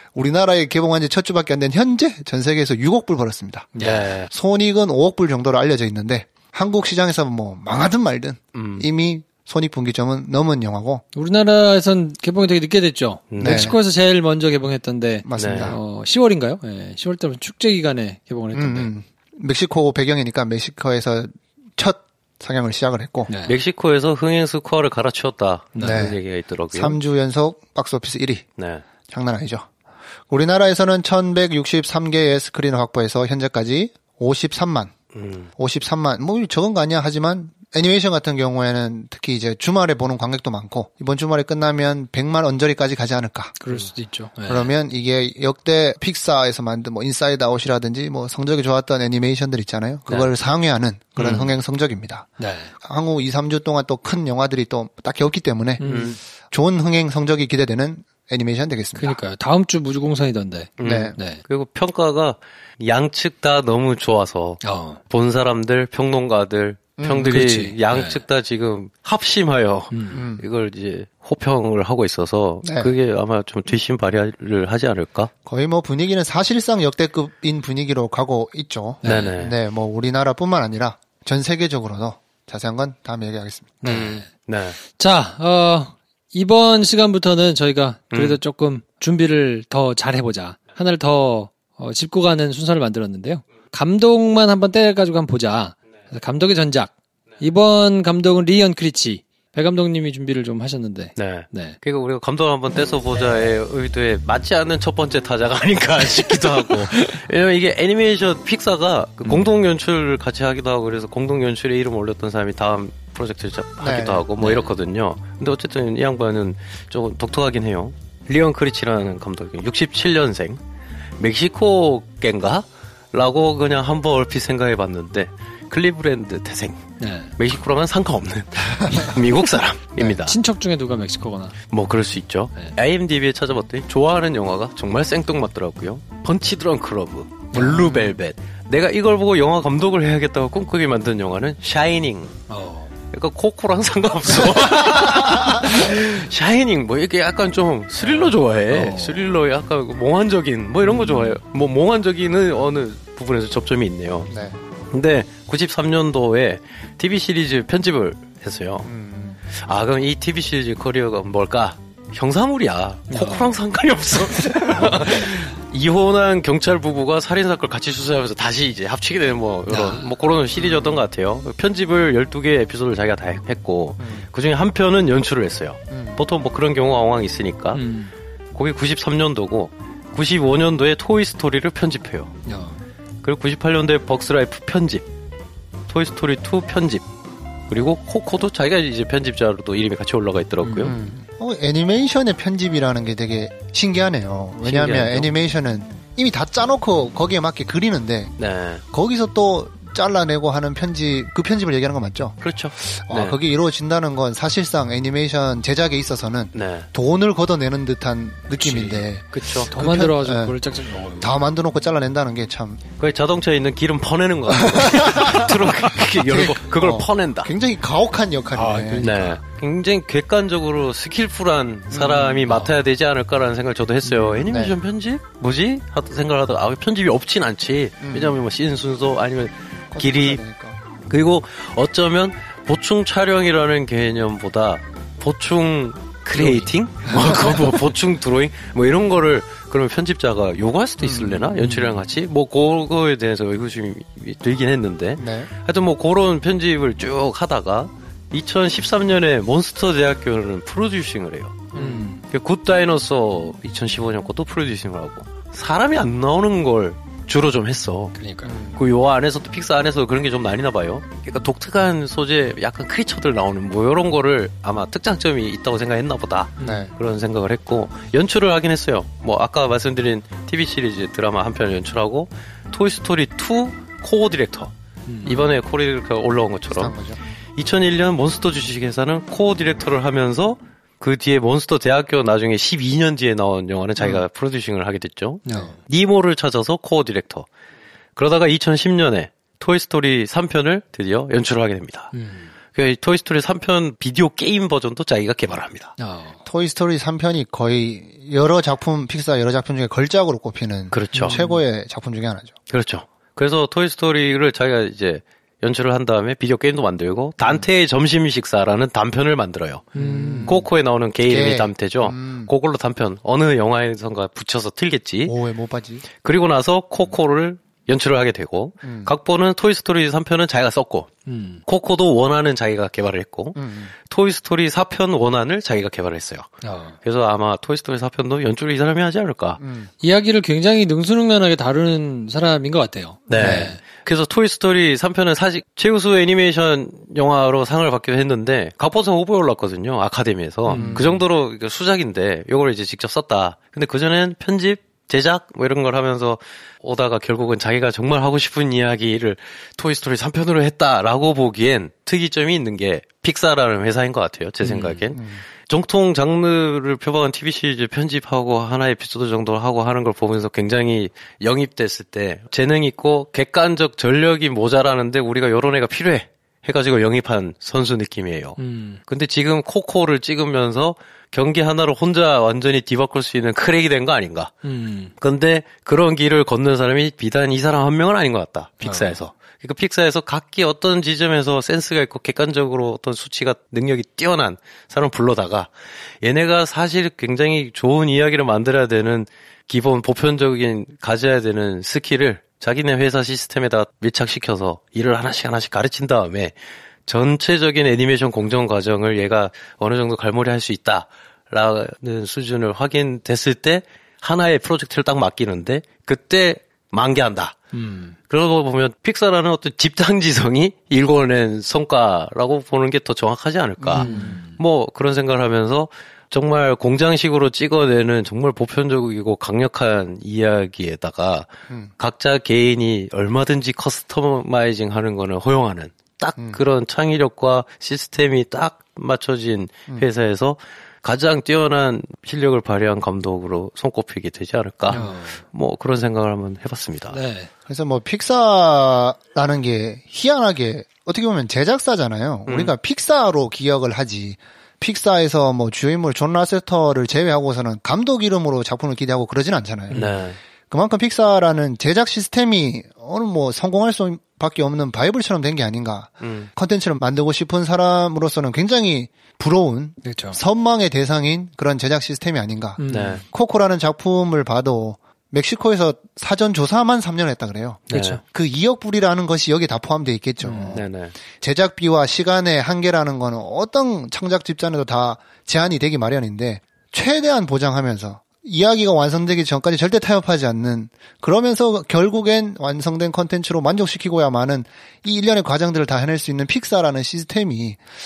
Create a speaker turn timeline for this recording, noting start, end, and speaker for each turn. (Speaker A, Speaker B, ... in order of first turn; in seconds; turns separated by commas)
Speaker A: 0.1-11.0, Speaker B: 3.8-4.1, Speaker C: 3.8-4.3, Speaker C: 8.6-8.9, Speaker B: 11.2-18.9, Speaker C: 13.3-13.7, Speaker A: 13.4-13.8, Speaker A: 15.2-15.8, Speaker C: 15.4-15.8, Speaker A: 18.5-23.3, Speaker B: 23.3-23.6, Speaker C: 23.5-27.0, Speaker B: 25.8-26.1, Speaker A: 25.8-26.2, Speaker A: 26.7-28.5, Speaker C: 28.6-28.8, Speaker A: 29.1-29.7, Speaker A: 30.3-34.9, Speaker C: 35.1-35.5, Speaker A: 35.6-43.6, Speaker B: 43.6-44.7, Speaker A: 44.5-52.3, Speaker B: 51.2-51.5, Speaker B: 52.4-52.7, Speaker A: 52.8-55.9, Speaker B: 55.8-56.2, Speaker C: 55.8-56.2, Speaker A: 56.4-59.2, Speaker B: 59.0-61.4, Speaker C: 60.8-75.3, Speaker A: 60.8-61.2, Speaker B: 64.6-65.0, Speaker A: 67.0-67.3, Speaker B: 67.2-68.2, Speaker B: 69.9-70.2, Speaker A: 70.1-70.4, Speaker A: 72.6-72.9, Speaker A: 75.5-83.8, Speaker B: 79.0-79.3, Speaker C: 79.0-79.5, Speaker B: 83.8-84.3, Speaker C: 83.8-84.8, Speaker B: 84.9-101.8, Speaker C: 88.1-88.4, Speaker C: 101.2-120.6, Speaker A: 113.8-114.3, Speaker B: 114.4-114.7, Speaker C: 121.2-126.8, Speaker B: 127.0-127.3, Speaker C: 127.4-130.4, Speaker B: 130.0-131.6, Speaker C: 131.7-142.4, Speaker B: 137.5-138.1, Speaker B: 142.5-142.9, Speaker C: 143.1-154.3, Speaker A: 145.2-145.7, Speaker B: 148.7-149.2, Speaker A: 154.3-154.6, Speaker C: 154.9-158.9, Speaker A: 158.8-159.4, Speaker C: 159.5-177.8, Speaker B: 163.1-163.6, Speaker B: 164.7-165.3, Speaker B: 169.7-170.1, Speaker A: 174.0-174.3, Speaker A: 175.9-176.2, Speaker B: 177.7-178.1, Speaker C: 178.6-182.3, Speaker B: 182.5-182.8, Speaker C: 183.2-185.1, Speaker C: 185.9-187.1, Speaker C: 187.7-191.0, Speaker B: 190.6-190.9, Speaker A: 190.8-198.3, Speaker C: 194.6-195.3, Speaker C: 198.4-198.8, Speaker A: 198.9-210.6, Speaker C: 202.4-203.4, Speaker C: 206.5-206.9, Speaker B: 208.6-209.0, Speaker C: 209.3-209.7, Speaker B: 209.7-211.3, Speaker A: 211.2-212.8, Speaker C: 213.0-217.5, Speaker A: 214.5-215.6, Speaker A: 216.2-219.1, Speaker B: 218.6-219.4, Speaker C: 219.0-230.4, Speaker A: 221.9-222.7, Speaker A: 224.1-224.8, Speaker A: 228.0-228.4, Speaker A: 229.9-230.8, Speaker C: 231.1-258.2, Speaker B: 236.4-237.7, Speaker A: 241.0-241.6, Speaker B: 241.6-242.0, Speaker A: 245.2-245.5, Speaker B: 251.7-252.2, Speaker A: 251.8-252.1, Speaker B: 258.2-258.5, Speaker A: 258.4-258.8, Speaker C: 258.7-274.7, Speaker B: 266.6-266.9, Speaker A: 266.6-266.9, Speaker B: 275.1-275.4, Speaker C: 275.3-276.9, Speaker A: 276.7-277.2, Speaker C: 277.6-287.5, Speaker A: 284.0-284.2, Speaker B: 285.5-285.8, Speaker C: 288.2-292.1, Speaker B: 292.1-292.5, Speaker C: 292.7-295.9, Speaker B: 296.0-296.4, Speaker A: 296.4-302.5, Speaker C: 300.9-301.4, Speaker B: 301.1-301.6, Speaker C: 302.7-309.9, Speaker B: 309.9-310.6, Speaker A: 309.9-310.7, Speaker C: 310.5-315.4, Speaker A: 311.2-312.5, Speaker A: 315.3-316.1, Speaker C: 316.2-321.1, Speaker A: 318.8-319.1, Speaker B: 321.3-321.6, Speaker C: 321.7-326.5, Speaker A: 323.6-323.9, Speaker B: 326.6-326.9, Speaker C: 327.0-329.6, Speaker A: 329.6-329.9, Speaker B: 330.0-333.8, Speaker C: 333.3-374.5, Speaker A: 333.3-333.7, Speaker B: 340.7-341.1, Speaker A: 340.7-341.2, Speaker B: 354.6-355.0, Speaker A: 355.1-355.4, Speaker B: 368.6-369.0, Speaker B: 374.6-375.1, Speaker C: 375.2-385.7, Speaker B: 378.8-379.2, Speaker C: 386.2-396.5, Speaker C: 397.1-407.6, Speaker B: 407.7-408.1, Speaker C: 408.3-437.2, Speaker A: 413.8-414.4, Speaker B: 414.0-414.5, Speaker A: 426.4-426.6, Speaker B: 434.9-435.4, Speaker B: 437.1-437.5, Speaker A: 437.7-450.1, Speaker C: 442.5-442.7, Speaker C: 449.9-450.4, Speaker A: 450.7-470.9, Speaker C: 456.2-456.5, Speaker B: 460.0-460.4, Speaker B: 462.8-463.2, Speaker C: 462.9-463.2, Speaker C: 467.9-468.2, Speaker B: 467.9-468.2, Speaker B: 470.4-470.8, Speaker C: 470.7-471.1, Speaker A: 471.4-487.8